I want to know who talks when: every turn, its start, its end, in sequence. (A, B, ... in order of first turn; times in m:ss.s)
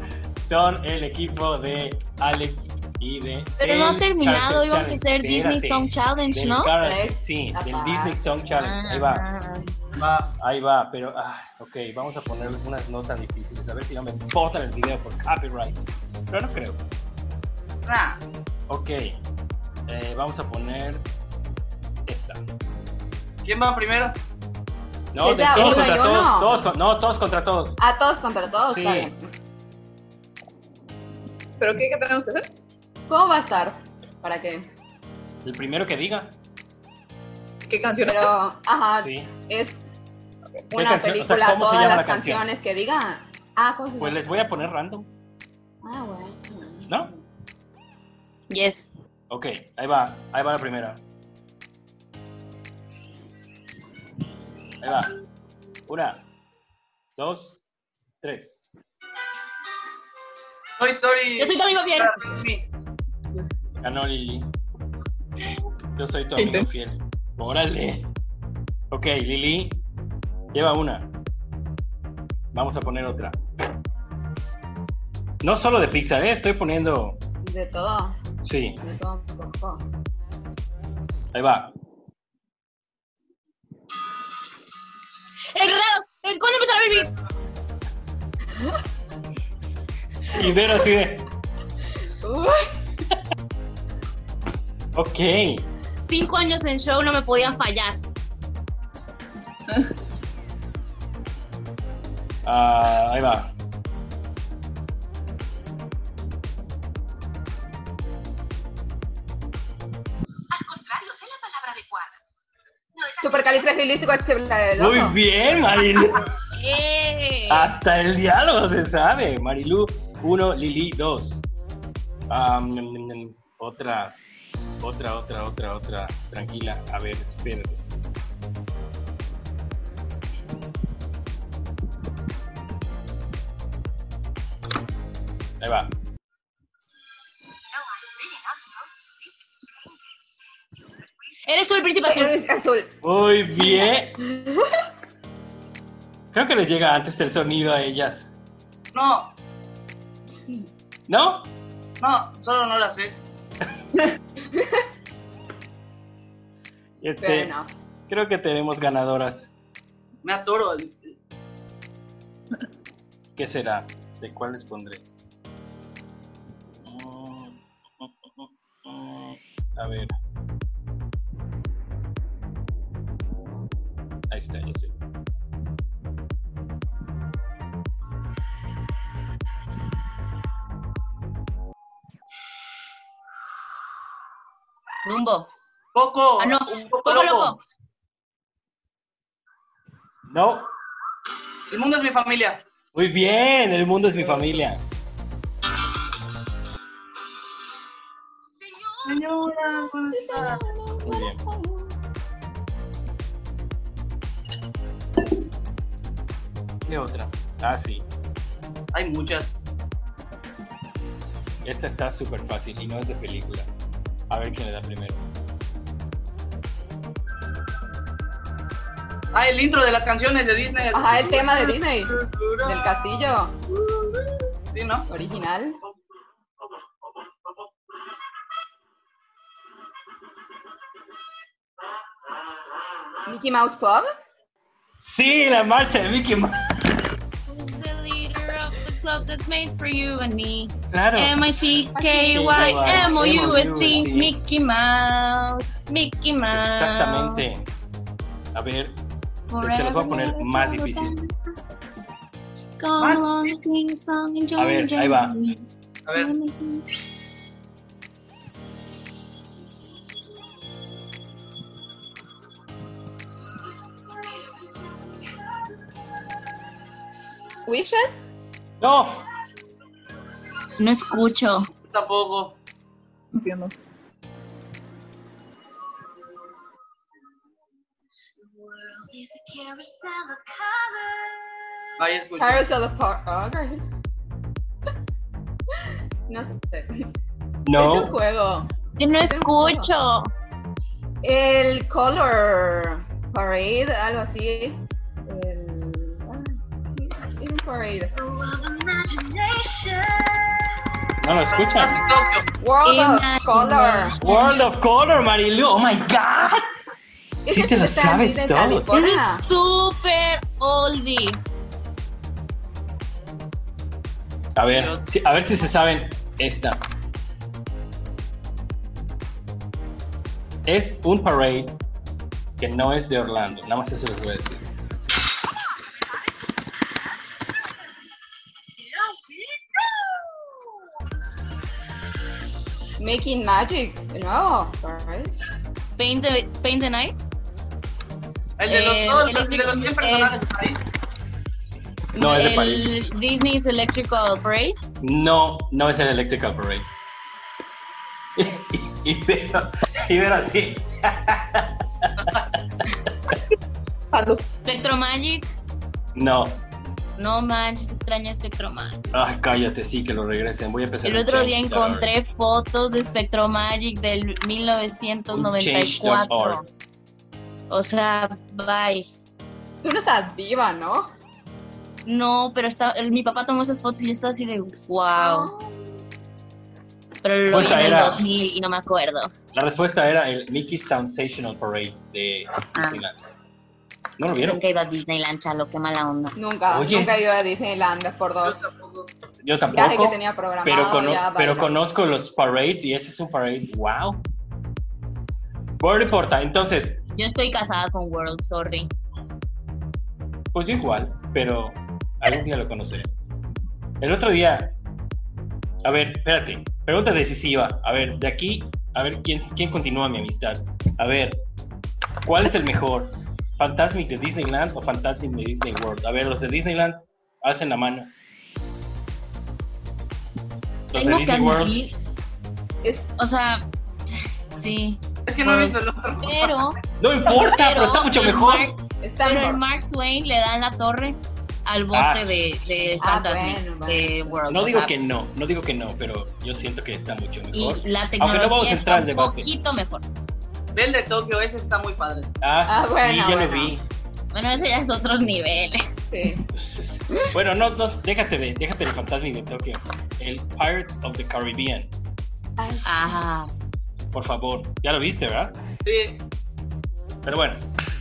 0:00.4-0:09.3 A
0:03.6-0:06.7 B
0:06.8-0:08.2 C
0:08.5-0:09.8 B
0:10.0-0:10.3 D
0:10.4-0:16.8 A
0:17.9-0:18.2 D
0:18.7-0:19.2 A
0:19.9-0:21.0 A
0:22.1-0:22.4 A
0:23.4-0:24.2 D
0:25.1-0:27.8 A
0:25.2-0:26.6 C
0:27.8-0:29.3 C
0:28.7-0:29.1 A
0:31.6-0:32.5 E
0:33.1-0:34.7 C
0:35.4-0:36.4 A
0:37.6-0:38.4 E
0:38.0-0:39.8 C
0:39.0-0:39.3 A
0:40.7-0:42.5 A
0:40.7-0:44.2 C
0:44.0-0:45.1 A
0:45.8-0:47.2 C
0:46.9-0:47.1 A
0:48.5-0:49.0 B
0:49.3-0:51.0 A
0:54.8-0:55.1 A
0:55.9-0:56.2 A
0:57.2-0:57.6 A
0:58.2-0:58.6 A
1:00.8-1:02.7 D
1:01.4-1:02.1 B
1:03.8-1:04.5 A
1:06.0-1:08.1 A
1:06.4-1:06.7 E
1:08.9-1:09.8 A
1:10.5-1:11.1 A
1:12.5-1:13.4 A
1:15.4-1:17.2 A
1:17.4-1:18.1 C
1:18.4-1:18.8 A
1:18.8-1:19.8 C
1:21.3-1:21.7 A
1:25.5-1:27.1 B
1:30.3-1:31.3 A
1:32.2-1:32.6 C
1:35.0-1:35.7 A
1:36.1-1:38.0 B
1:42.4-1:43.5 A
1:53.2-1:55.2 C
1:54.8-1:56.3 A
1:56.5-1:57.7 B
1:57.5-2:01.4 A
2:02.3-2:04.2 A
2:04.8-2:07.8 A
2:15.6-2:15.9 A
2:21.5-2:22.3 B
2:22.0-2:22.9 C
2:23.0-2:24.2 A
2:23.6-2:24.7 C
2:26.3-2:28.3 A
2:28.9-2:29.3 D
2:31.1-2:31.5 A
2:32.0-2:33.2 D
2:34.5-2:34.8 C
2:37.0-2:37.5 A
2:37.2-2:37.7 C
2:38.1-2:39.5 A
2:40.2-2:41.0 D
2:43.4-2:45.0 A
2:46.8-2:50.1 A
2:54.3-2:55.0 A
3:05.0-3:05.5 B
3:05.9-3:07.6 D
3:06.4-3:07.6 B
3:10.3-3:10.7 A
3:11.7-3:12.6 D
3:12.9-3:14.8 A
3:19.0-3:20.6 D
3:20.1-3:22.0 C
3:21.1-3:21.4 A
3:26.9-3:28.1 A
3:28.9-3:29.6 D
3:31.6-3:33.7 A
3:34.3-3:35.2 A
3:39.3-3:42.9 D
3:40.9-3:43.6 C
3:43.8-3:44.2 D
3:44.7-3:45.1 D
3:45.1-3:45.8 C
3:53.3-3:54.1 C
3:55.0-3:56.7 A
3:57.5-4:07.4 B
4:00.9-4:01.3 A
4:02.0-4:03.0 C
4:02.3-4:04.4 A
4:06.5-4:07.7 A
4:08.6-4:09.0 A
4:09.5-4:11.3 B
4:09.6-4:11.2 A
4:12.8-4:16.9 B
4:13.0-4:13.6 D
4:14.6-4:15.4 A
4:16.1-4:16.3 D
4:27.7-4:28.3 C
4:28.8-4:29.2 A
4:30.8-4:31.6 B
4:31.9-4:32.6 D
4:33.4-4:33.7 E
4:38.6-4:41.3 B
4:42.0-4:42.6 D
4:42.4-4:43.8 C
4:46.3-4:46.9 C
4:47.6-4:48.2 A
4:47.8-4:48.7 C
4:49.0-4:50.3 B
4:49.2-4:49.9 C
4:51.2-4:58.1 C
4:58.2-5:00.3 B
5:01.2-5:02.0 A
5:01.5-5:02.5 D
5:02.6-5:04.1 C
5:02.8-5:04.6 B
5:04.2-5:06.6 A
5:07.4-5:09.4 C
5:07.5-5:09.0 A
5:08.9-5:11.4 B
5:14.6-5:16.8 A
5:14.7-5:15.0 D
5:20.7-5:21.8 A
5:22.6-5:24.7 A
5:33.0-5:35.4 C
5:36.0-5:37.2 B
5:38.6-5:40.9 D
5:38.7-5:40.4 B
5:42.1-5:43.0 A
5:42.2-5:44.8 B
5:45.0-5:46.9 A
5:48.4-5:52.6 A
5:54.1-5:54.4 E
5:54.6-5:55.5 B
5:56.2-5:56.6 A
5:57.2-5:59.2 B
5:59.1-6:02.1 A
6:01.0-6:06.6 B
6:05.3-6:06.6 A
6:07.7-6:09.1 B
6:09.8-6:11.1 C
6:12.1-6:15.5 B
6:15.2-6:16.0 C
6:17.2-6:19.3 B
6:17.5-6:18.3 A
6:19.5-6:23.2 A
6:22.8-6:23.0 B
6:24.2-6:24.6 A
6:24.3-6:26.4 B
6:26.4-6:28.6 C
6:26.7-6:27.2 A
6:28.4-6:29.1 D
6:29.4-6:34.3 A
6:29.7-6:31.7 C
6:35.8-6:37.0 A
6:37.2-6:38.9 B
6:40.5-6:43.1 A
6:44.0-6:44.8 A
6:45.8-6:51.4 A
6:52.2-6:58.1 A
7:00.9-7:01.8 A
7:00.9-7:02.0 B
7:02.8-7:03.1 C
7:03.2-7:03.7 B
7:04.5-7:06.8 B
7:05.3-7:06.5 D
7:07.0-7:08.8 A
7:07.3-7:14.9 B
7:09.0-7:09.6 C
7:11.9-7:12.5 A
7:13.0-7:14.4 C
7:14.5-7:19.5 A
7:17.5-7:20.0 B
7:20.7-7:22.3 D
7:22.4-7:23.8 A
7:22.7-7:23.7 C
7:24.3-7:25.8 B
7:26.1-7:26.4 C
7:26.5-7:31.9 A
7:32.6-7:33.1 C
7:32.8-7:33.5 B
7:34.1-7:35.6 A
7:35.8-7:36.2 D
7:37.2-7:37.6 A